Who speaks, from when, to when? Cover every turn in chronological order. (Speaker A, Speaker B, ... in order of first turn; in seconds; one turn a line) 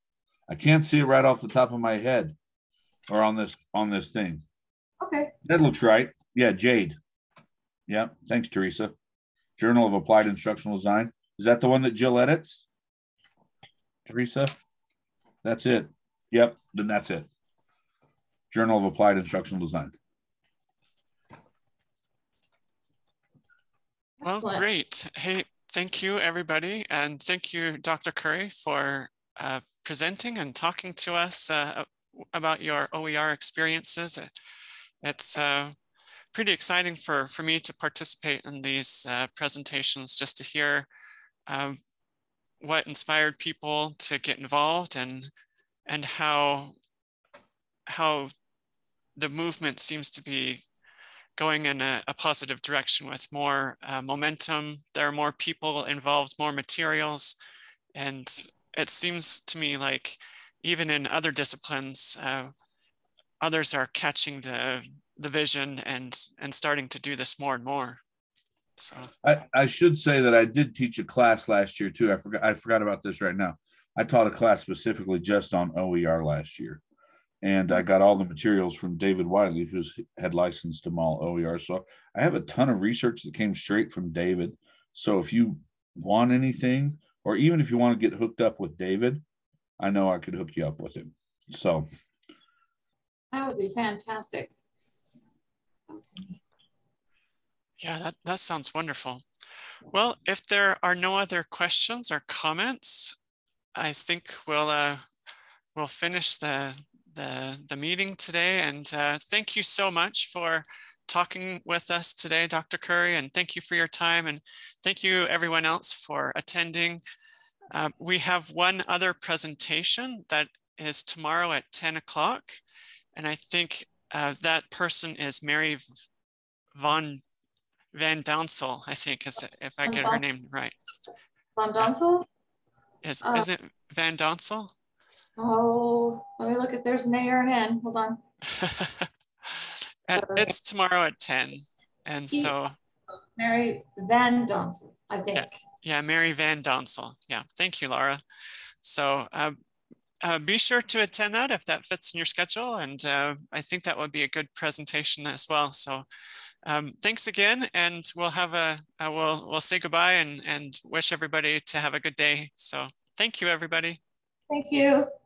Speaker A: 0.5-2.3
Speaker A: 3.1-4.4
Speaker B: 5.0-5.3
Speaker A: 5.4-7.0
Speaker A: 7.9-8.9
Speaker A: 9.6-12.6
Speaker A: 14.0-14.5
Speaker A: 15.4-17.3
Speaker A: 18.5-19.9
Speaker B: 24.2-24.6
Speaker C: 24.2-34.3
Speaker C: 35.0-35.7
Speaker C: 36.3-40.9
Speaker C: 41.5-41.8
Speaker C: 42.6-45.3
Speaker C: 45.9-46.8
Speaker C: 47.9-48.3
Speaker C: 49.1-50.6
Speaker C: 51.4-57.3
Speaker C: 58.0-62.5
Speaker C: 63.4-68.0
Speaker C: 68.8-69.1
Speaker A: 69.2-76.8
Speaker A: 77.4-89.2
Speaker A: 89.8-91.8
Speaker B: 93.3-94.5
Speaker C: 97.8-99.2
Speaker C: 99.9-103.1
Speaker C: 103.8-105.0
Speaker C: 105.7-117.0
Speaker C: 117.7-122.6
Speaker C: 123.2-125.8
Speaker C: 126.7-127.2
Speaker C: 127.9-130.8
Speaker B: 129.8-130.2
Speaker B: 131.6-132.3
Speaker C: 133.0-134.7
Speaker B: 135.4-138.2
Speaker C: 138.6-142.7
Speaker B: 140.2-140.5
Speaker B: 143.3-145.6
Speaker C: 145.3-148.2
Speaker C: 148.8-149.6
Speaker C: 150.2-156.0
Speaker C: 156.7-164.0
Speaker B: 164.5-165.1